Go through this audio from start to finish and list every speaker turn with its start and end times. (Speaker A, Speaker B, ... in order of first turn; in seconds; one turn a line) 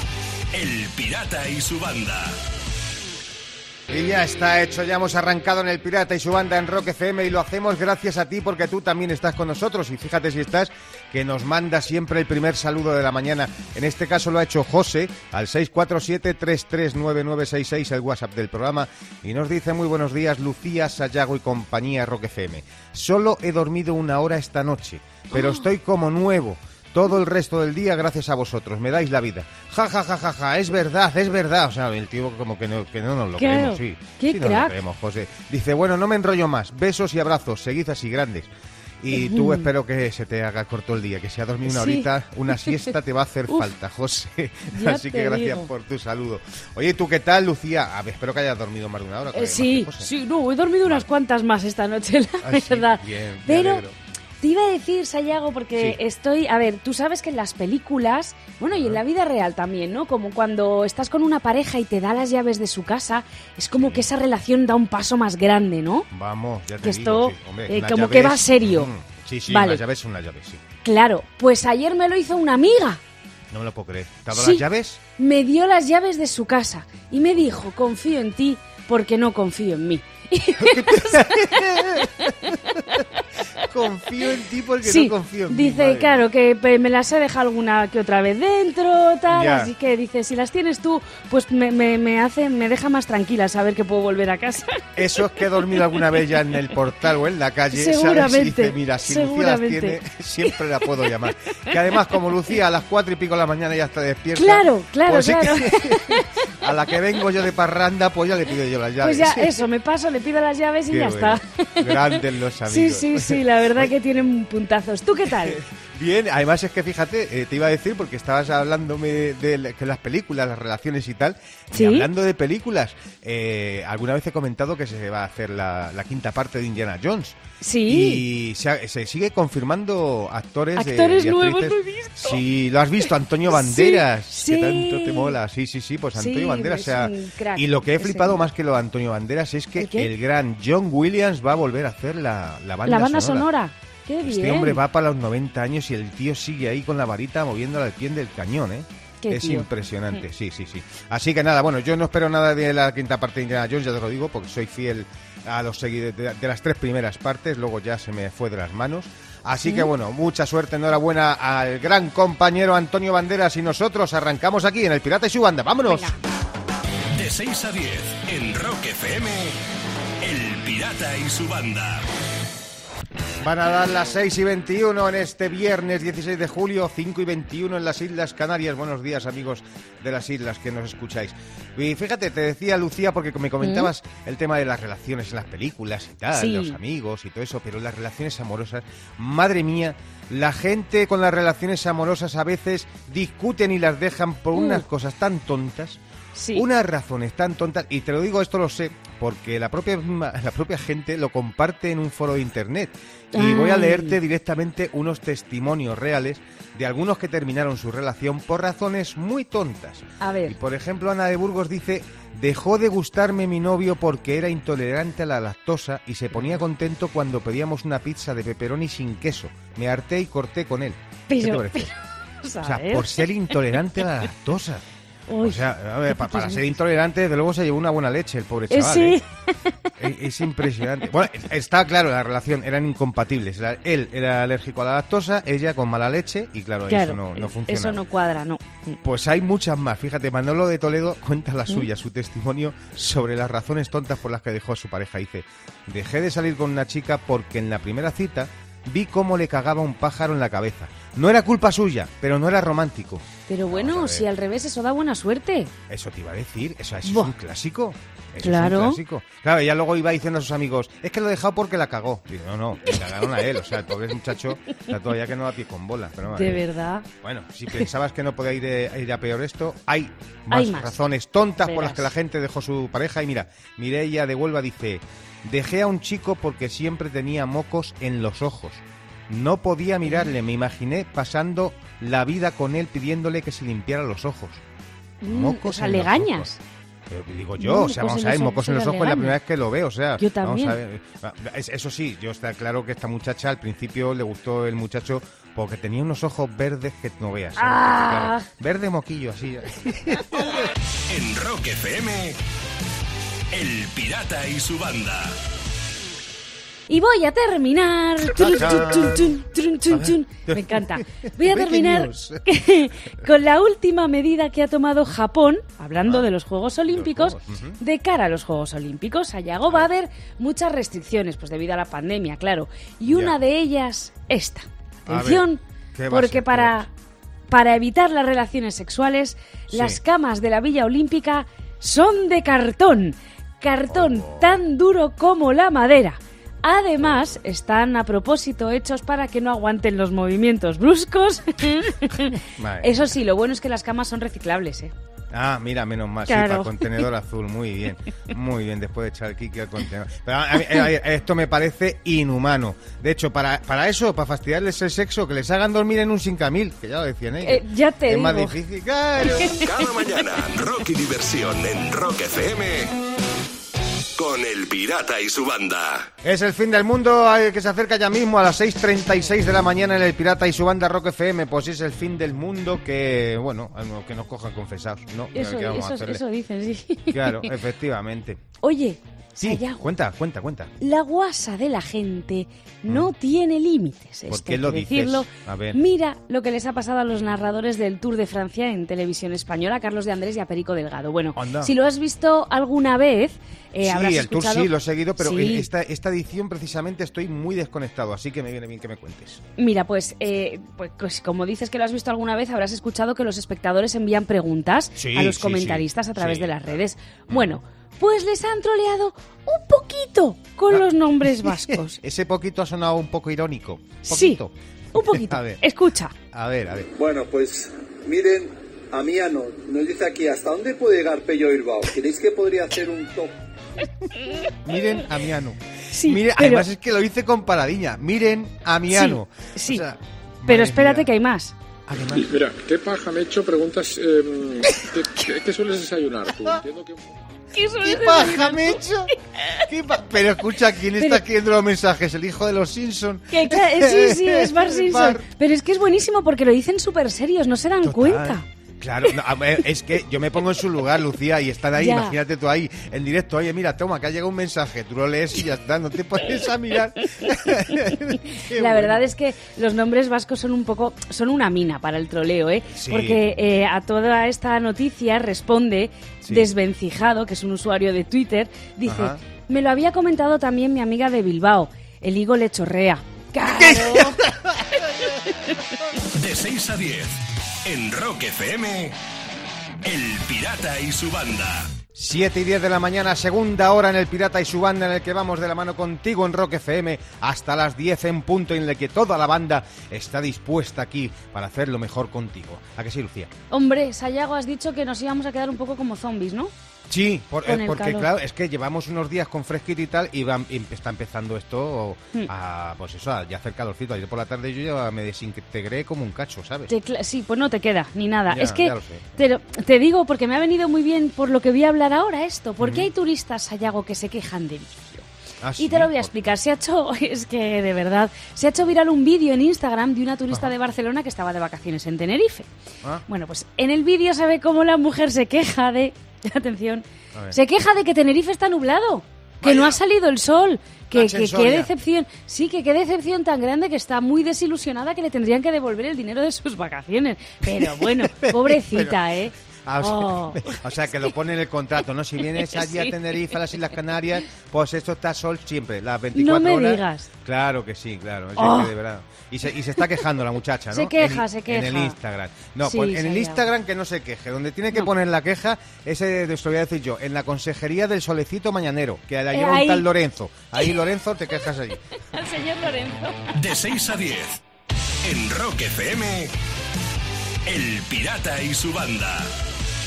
Speaker A: 0.5-2.4
Speaker B: 3.9-38.5
Speaker C: 25.3-25.7
Speaker C: 33.4-34.8
Speaker B: 39.0-50.1
Speaker C: 39.1-39.7
Speaker C: 41.6-42.8
Speaker C: 44.7-45.7
Speaker C: 49.3-53.8
Speaker B: 52.4-54.0
Speaker C: 54.4-66.1
Speaker B: 58.7-59.0
Speaker B: 63.8-64.1
Speaker B: 66.1-70.6
Speaker C: 66.8-68.9
Speaker C: 69.5-69.8
Speaker C: 70.8-73.0
Speaker B: 73.5-75.0
Speaker C: 74.3-74.6
Speaker C: 75.2-83.0
Speaker B: 80.6-82.5
Speaker B: 83.6-86.2
Speaker C: 84.8-94.8
Speaker B: 89.3-89.7
Speaker B: 95.0-109.5
Speaker C: 95.4-96.1
Speaker C: 97.7-100.0
Speaker C: 104.3-106.4
Speaker C: 109.0-115.6
Speaker B: 110.9-113.9
Speaker B: 115.4-143.5
Speaker C: 121.7-122.1
Speaker C: 127.6-128.2
Speaker C: 130.8-132.4
Speaker C: 133.5-135.4
Speaker C: 136.1-138.4
Speaker C: 139.8-140.1
Speaker C: 142.8-144.8
Speaker B: 144.2-166.2
Speaker C: 149.2-150.2
Speaker C: 159.6-159.9
Speaker C: 165.9-166.2
Speaker A: 167.1-169.6
Speaker A: 170.2-172.0
Speaker B: 173.4-196.0
Speaker C: 183.6-183.9
Speaker C: 186.3-186.8
Speaker C: 194.5-194.8
Speaker C: 196.3-196.6
Speaker B: 196.5-221.9
Speaker C: 203.3-204.2
Speaker C: 210.2-210.6
Speaker C: 221.3-223.5
Speaker B: 222.6-224.8
Speaker C: 225.3-226.6
Speaker B: 225.4-229.2
Speaker C: 228.7-229.7
Speaker B: 230.0-238.0
Speaker C: 236.9-239.0
Speaker B: 239.0-254.2
Speaker C: 253.5-255.7
Speaker B: 255.9-266.6
Speaker C: 257.1-257.3
Speaker C: 258.4-259.0
Speaker C: 266.2-267.1
Speaker B: 267.2-284.6
Speaker C: 270.5-271.0
Speaker C: 271.6-272.1
Speaker C: 285.2-286.6
Speaker B: 285.2-286.5
Speaker B: 287.1-300.7
Speaker C: 287.6-289.4
Speaker C: 290.2-290.8
Speaker C: 297.6-298.5
Speaker A: 301.1-302.4
Speaker A: 303.5-305.4
Speaker C: 306.9-326.9
Speaker B: 308.4-309.4
Speaker B: 309.9-312.4
Speaker B: 316.0-316.3
Speaker B: 316.9-317.8
Speaker B: 323.1-323.3
Speaker B: 325.1-326.9
Speaker C: 327.5-344.9
Speaker B: 329.7-330.0
Speaker B: 333.9-334.6
Speaker B: 342.6-342.9
Speaker B: 345.3-359.6
Speaker C: 346.3-347.1
Speaker C: 357.4-358.6
Speaker A: 359.6-362.9
Speaker A: 364.1-366.1
Speaker B: 366.2-376.2
Speaker C: 375.3-377.5
Speaker B: 377.1-378.5
Speaker C: 378.6-379.8
Speaker B: 379.4-380.7
Speaker C: 380.8-395.7
Speaker B: 382.9-383.1
Speaker B: 384.3-385.8
Speaker B: 391.3-391.7
Speaker B: 393.8-399.4
Speaker C: 399.6-412.0
Speaker B: 404.9-406.6
Speaker B: 407.3-407.5
Speaker B: 411.4-415.6
Speaker C: 414.0-414.4
Speaker C: 414.9-416.1
Speaker B: 416.3-416.9
Speaker D: 416.9-423.3
Speaker B: 424.6-431.1
Speaker C: 425.9-426.7
Speaker C: 428.9-429.8
Speaker C: 430.4-431.5
Speaker B: 431.9-432.4
Speaker E: 432.1-437.1
Speaker C: 437.5-438.8
Speaker B: 437.8-439.1
Speaker B: 439.7-445.2
Speaker C: 443.3-448.4
Speaker B: 447.8-459.0
Speaker C: 451.8-452.2
Speaker C: 458.5-474.2
Speaker B: 462.7-463.2
Speaker B: 468.8-469.2
Speaker B: 473.5-474.6
Speaker A: 476.1-479.0
Speaker A: 479.8-481.7
Speaker B: 481.9-493.3
Speaker C: 493.5-496.5
Speaker B: 496.9-506.7
Speaker C: 497.4-498.1
Speaker C: 506.7-515.0
Speaker B: 508.3-509.1
Speaker B: 512.6-512.9
Speaker B: 515.4-516.1
Speaker C: 515.6-522.5
Speaker C: 523.1-540.6
Speaker B: 529.4-529.8
Speaker B: 530.9-531.7
Speaker B: 537.5-539.0
Speaker B: 539.6-561.8
Speaker C: 542.4-543.0
Speaker C: 546.1-547.1
Speaker C: 548.4-548.7
Speaker C: 550.7-552.0
Speaker C: 552.6-553.4
Speaker C: 559.3-559.9
Speaker C: 562.1-563.2
Speaker A: 563.3-564.4
Speaker A: 565.0-566.4
Speaker A: 567.4-569.3